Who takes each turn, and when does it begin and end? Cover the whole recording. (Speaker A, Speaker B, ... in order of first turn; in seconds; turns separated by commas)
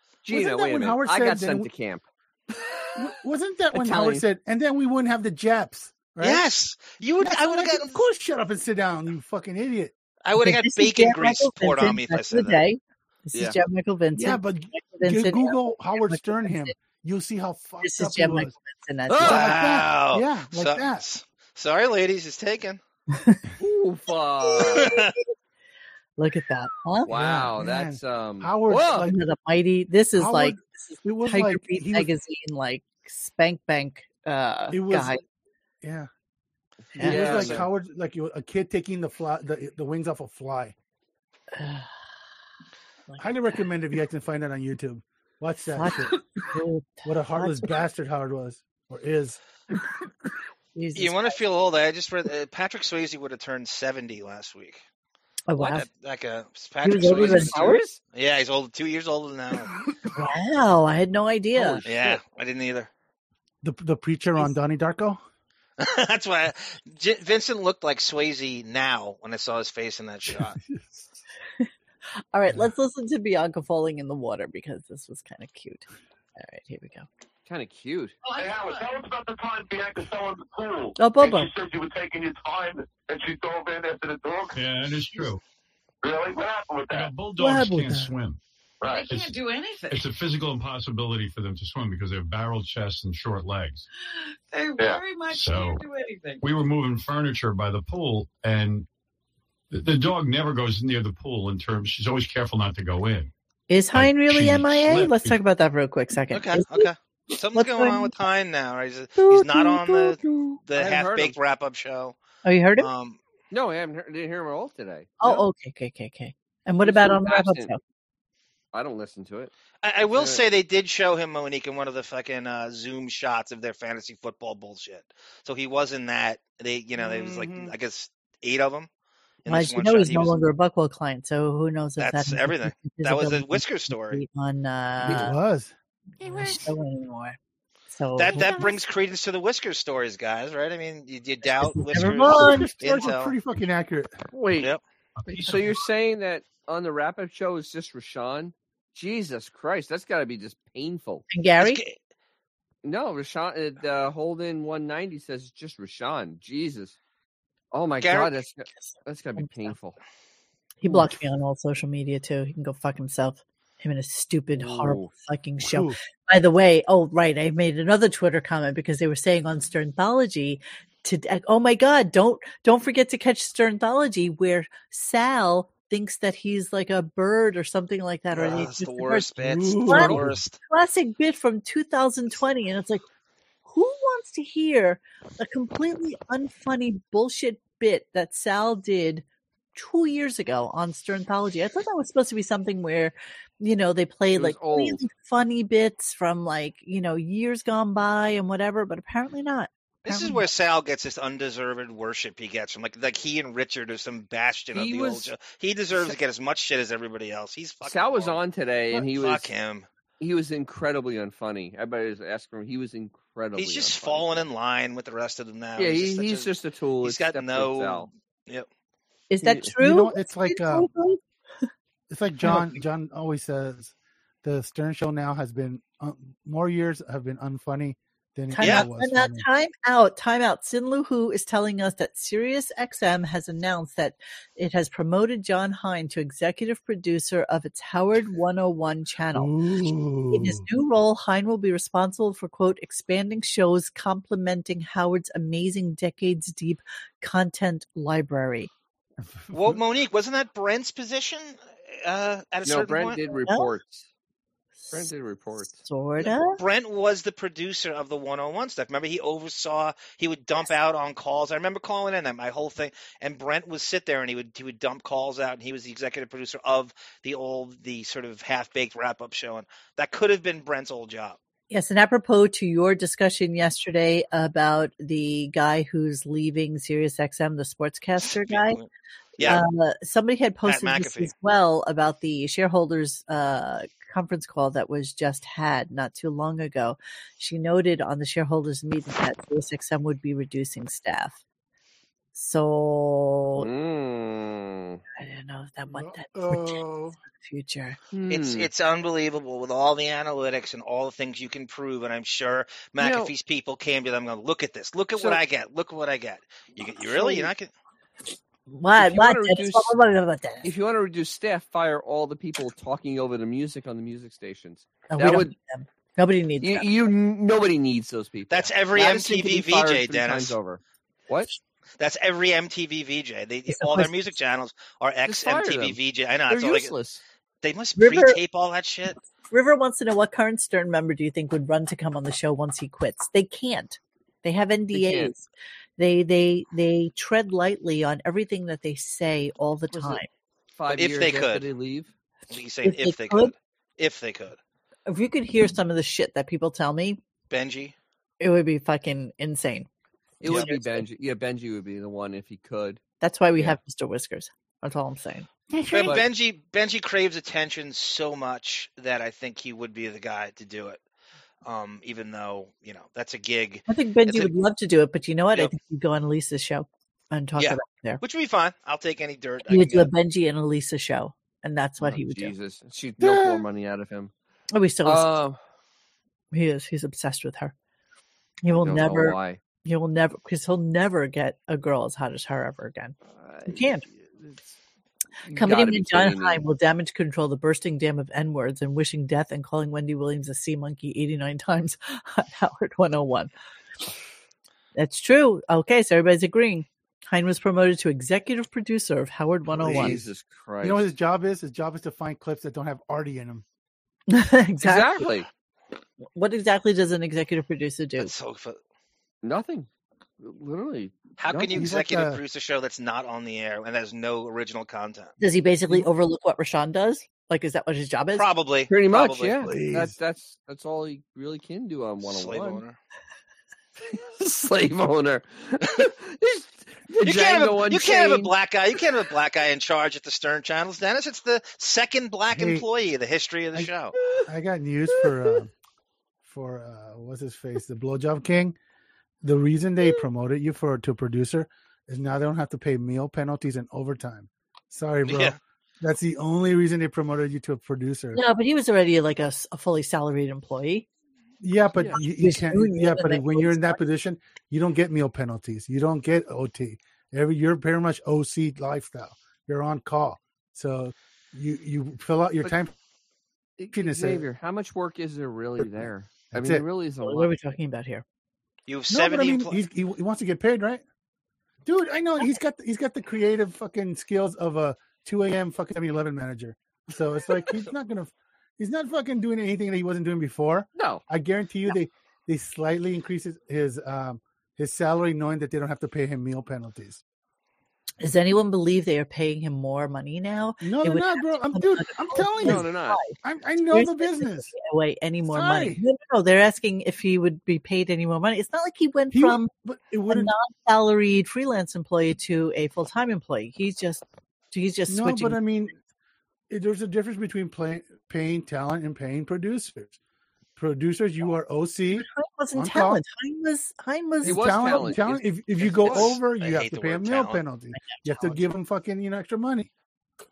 Speaker A: 0.2-3.1, Speaker B: 0.3-1.7, Speaker B: 2.9-6.5, Speaker A: 3.7-4.2, Speaker C: 6.2-8.0, Speaker B: 7.2-9.9, Speaker C: 10.2-12.6, Speaker D: 10.4-16.7, Speaker B: 14.1-18.5, Speaker D: 17.8-19.6, Speaker A: 19.1-19.6, Speaker B: 19.2-21.0, Speaker C: 19.2-22.8, Speaker D: 23.1-23.4, Speaker A: 23.6-24.9, Speaker C: 24.6-25.1, Speaker D: 26.2-27.1, Speaker A: 27.1-29.1, Speaker B: 27.1-29.2, Speaker D: 29.0-35.2, Speaker B: 30.1-32.1, Speaker B: 34.7-35.2, Speaker B: 35.8-36.1, Speaker A: 36.9-37.6, Speaker D: 37.0-37.6, Speaker B: 37.0-40.7, Speaker D: 41.5-41.9, Speaker B: 43.2-46.2, Speaker D: 45.8-47.7, Speaker B: 47.0-49.4, Speaker D: 50.7-51.4, Speaker C: 50.9-54.8, Speaker D: 55.5-55.9, Speaker C: 55.6-59.7, Speaker D: 56.8-57.8, Speaker A: 57.0-58.0, Speaker D: 60.1-61.8, Speaker A: 61.5-62.2, Speaker C: 61.8-62.9, Speaker B: 63.6-65.2, Speaker C: 65.8-70.6, Speaker B: 70.3-71.1, Speaker D: 72.3-77.1, Speaker A: 77.5-78.1, Speaker E: 78.2-78.9, Speaker F: 78.3-85.3, Speaker D: 81.0-81.5, Speaker G: 84.5-85.4, Speaker F: 86.0-87.2, Speaker G: 86.9-88.4, Speaker D: 87.4-88.1, Speaker F: 88.8-89.0, Speaker E: 88.8-90.0, Speaker G: 89.9-93.9, Speaker E: 94.1-96.5, Speaker G: 95.3-95.8, Speaker G: 96.4-98.9, Speaker G: 99.7-103.3, Speaker D: 103.7-106.9, Speaker G: 103.9-105.4, Speaker C: 106.3-112.2, Speaker D: 107.5-108.2, Speaker D: 109.2-110.6, Speaker A: 110.8-111.4, Speaker D: 112.4-112.9, Speaker C: 112.8-113.2, Speaker A: 113.5-115.4, Speaker D: 115.2-117.8, Speaker A: 116.8-117.7, Speaker A: 118.7-119.5, Speaker C: 119.8-128.9, Speaker A: 120.1-120.4, Speaker A: 127.2-127.4, Speaker C: 129.4-130.4, Speaker D: 129.5-135.3, Speaker C: 132.0-134.2, Speaker B: 135.0-135.7, Speaker D: 136.2-137.4, Speaker D: 137.9-138.6, Speaker C: 138.2-143.3, Speaker B: 138.3-138.6, Speaker D: 141.4-142.7, Speaker B: 141.9-144.2, Speaker A: 144.3-144.7, Speaker G: 145.2-145.7, Speaker A: 145.3-151.2, Speaker D: 151.3-151.8, Speaker C: 151.6-152.0, Speaker A: 152.8-156.9, Speaker A: 157.7-160.0, Speaker C: 158.0-158.3, Speaker D: 159.4-159.7, Speaker D: 160.8-183.0, Speaker A: 164.5-165.1, Speaker B: 165.6-166.0, Speaker C: 178.3-180.6, Speaker B: 179.4-180.4, Speaker D: 183.7-200.4, Speaker A: 194.3-195.0, Speaker C: 200.0-208.4, Speaker A: 204.7-205.3, Speaker A: 207.8-209.5, Speaker C: 208.9-209.9, Speaker A: 210.2-214.4, Speaker C: 213.6-216.5, Speaker A: 215.8-218.1, Speaker C: 217.0-218.7, Speaker D: 219.3-221.7, Speaker A: 219.4-219.7, Speaker B: 219.7-220.9, Speaker B: 222.1-229.4, Speaker D: 228.5-239.6, Speaker C: 228.6-228.9, Speaker B: 239.3-240.7, Speaker D: 240.3-248.7, Speaker B: 249.2-249.8, Speaker C: 249.5-253.2, Speaker A: 252.6-254.1, Speaker D: 254.8-255.1, Speaker A: 254.9-255.8, Speaker D: 255.7-256.6, Speaker C: 256.2-271.4, Speaker D: 271.7-278.8, Speaker C: 278.2-279.6, Speaker D: 279.4-291.4, Speaker C: 280.6-281.3, Speaker D: 292.3-293.7, Speaker A: 293.6-295.0, Speaker D: 295.2-298.0, Speaker B: 295.9-297.2, Speaker A: 298.1-298.7, Speaker C: 298.3-307.7, Speaker A: 303.0-303.3, Speaker A: 305.1-305.4, Speaker A: 307.0-307.5, Speaker D: 308.7-310.7, Speaker A: 309.0-309.9, Speaker A: 310.6-315.5, Speaker D: 315.1-316.9, Speaker A: 316.6-321.5, Speaker C: 318.5-320.5, Speaker C: 322.0-326.9, Speaker D: 323.7-324.1, Speaker A: 325.2-327.2, Speaker C: 327.6-329.2, Speaker D: 328.0-328.4, Speaker D: 329.5-340.3, Speaker A: 334.9-335.3, Speaker A: 339.9-340.2, Speaker A: 340.8-342.1, Speaker C: 340.9-341.6, Speaker C: 342.5-344.6, Speaker D: 342.8-343.5, Speaker D: 345.1-347.2, Speaker C: 347.5-347.9, Speaker D: 348.4-349.9, Speaker A: 350.4-353.0, Speaker C: 350.4-350.7, Speaker D: 350.5-351.0, Speaker D: 353.2-355.5, Speaker B: 355.7-356.2, Speaker C: 355.9-361.0, Speaker C: 361.6-364.5, Speaker D: 363.9-368.2, Speaker C: 367.6-370.1, Speaker D: 369.7-372.5, Speaker A: 372.0-374.3, Speaker B: 373.2-373.6, Speaker D: 374.7-375.3, Speaker A: 375.0-375.6, Speaker D: 376.5-377.7, Speaker D: 378.6-383.1, Speaker A: 378.8-379.6, Speaker A: 383.3-384.6, Speaker D: 383.7-384.0, Speaker A: 385.4-386.6, Speaker D: 385.5-393.5, Speaker D: 394.9-400.2, Speaker B: 399.7-400.3, Speaker A: 399.8-401.0, Speaker B: 400.8-403.6, Speaker D: 404.3-405.3, Speaker A: 404.8-405.5, Speaker D: 406.3-408.3, Speaker C: 408.2-408.8, Speaker A: 409.4-409.9, Speaker A: 410.4-411.9, Speaker C: 411.4-415.3, Speaker B: 411.7-412.4, Speaker D: 415.4-418.5, Speaker C: 418.3-419.6, Speaker A: 418.9-422.8, Speaker B: 419.6-420.1, Speaker C: 422.2-423.0, Speaker A: 424.0-428.5, Speaker C: 427.2-434.1, Speaker B: 432.5-432.9, Speaker A: 434.2-434.4, Speaker B: 434.4-435.7, Speaker A: 435.1-435.6, Speaker B: 436.4-438.8, Speaker B: 439.4-448.4, Speaker C: 445.2-445.6, Speaker D: 448.3-451.1, Speaker B: 451.6-462.9, Speaker D: 452.1-454.0, Speaker A: 463.8-467.5, Speaker B: 463.9-464.4, Speaker B: 465.8-466.8, Speaker D: 467.2-468.2, Speaker C: 468.9-469.8, Speaker B: 469.1-471.0, Speaker B: 471.9-487.2, Speaker A: 480.9-481.2, Speaker D: 488.2-493.4, Speaker B: 490.8-494.7, Speaker A: 492.6-493.2, Speaker D: 493.9-499.7, Speaker B: 495.5-496.0, Speaker B: 499.3-500.5, Speaker D: 500.3-505.6, Speaker B: 505.1-505.9, Speaker B: 506.7-510.2, Speaker B: 510.8-513.2, Speaker D: 512.2-515.1, Speaker A: 514.4-516.3, Speaker B: 514.4-519.9, Speaker C: 516.0-517.6, Speaker D: 517.9-518.6